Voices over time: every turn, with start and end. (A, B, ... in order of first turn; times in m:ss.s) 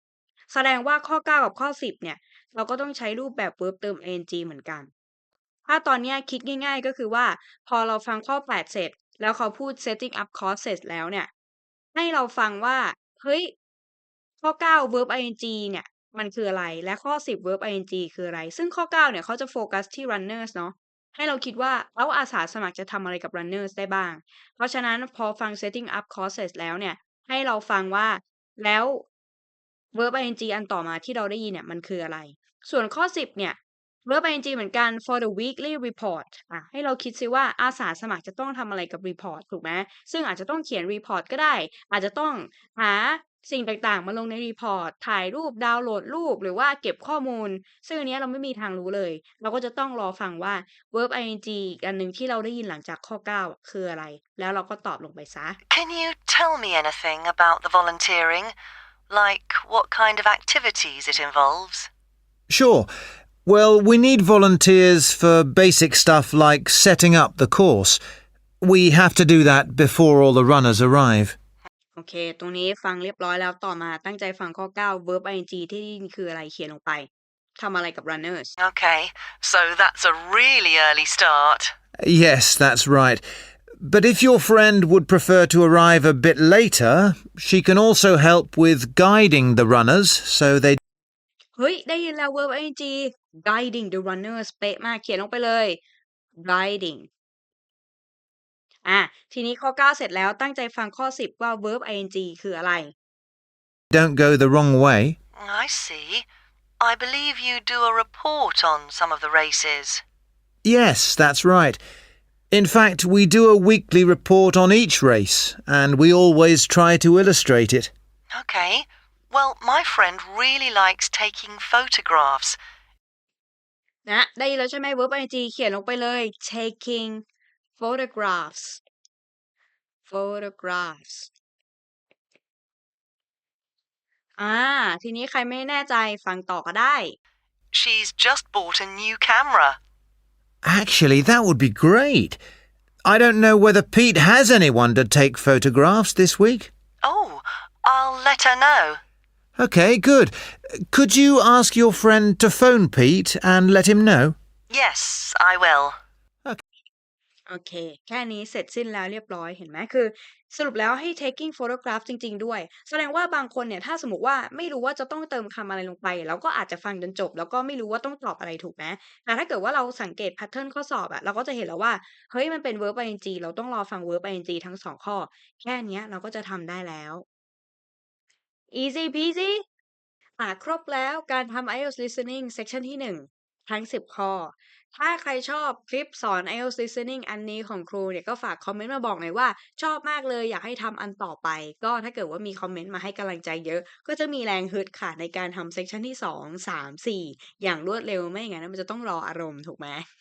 0:00.5-0:04.9 A
0:05.7-0:11.3 A
0:12.0-0:13.5 A
0:14.4-0:29.0 A
0:29.9-0:55.6 A
0:55.7-0:58.5 B
0:59.1-1:01.9 B
1:02.5-1:02.9 C
1:03.4-1:08.0 C
1:08.6-1:11.4 C
1:12.0-1:18.6 A
1:18.6-1:21.7 B
1:22.0-1:23.2 C
1:23.8-1:30.8 C
1:31.6-1:35.8 A
1:36.4-1:37.1 A
1:38.8-1:42.9 A
1:43.9-1:45.2 C
1:45.4-1:46.3 B
1:46.8-1:50.0 B
1:50.6-1:51.8 C
1:52.5-1:57.9 C
1:58.3-2:02.6 B
2:04.1-2:07.2 A
2:07.8-2:08.8 A
2:10.1-2:11.3 A
2:14.4-2:17.2 A
2:17.7-2:19.8 B
2:20.6-2:22.4 C
2:23.0-2:26.7 C
2:27.0-2:29.0 B
2:29.6-2:34.4 C
2:34.7-2:36.0 B
2:37.5-2:57.2 A
2:58.7-2:59.6 A
3:00.4-3:20.1 A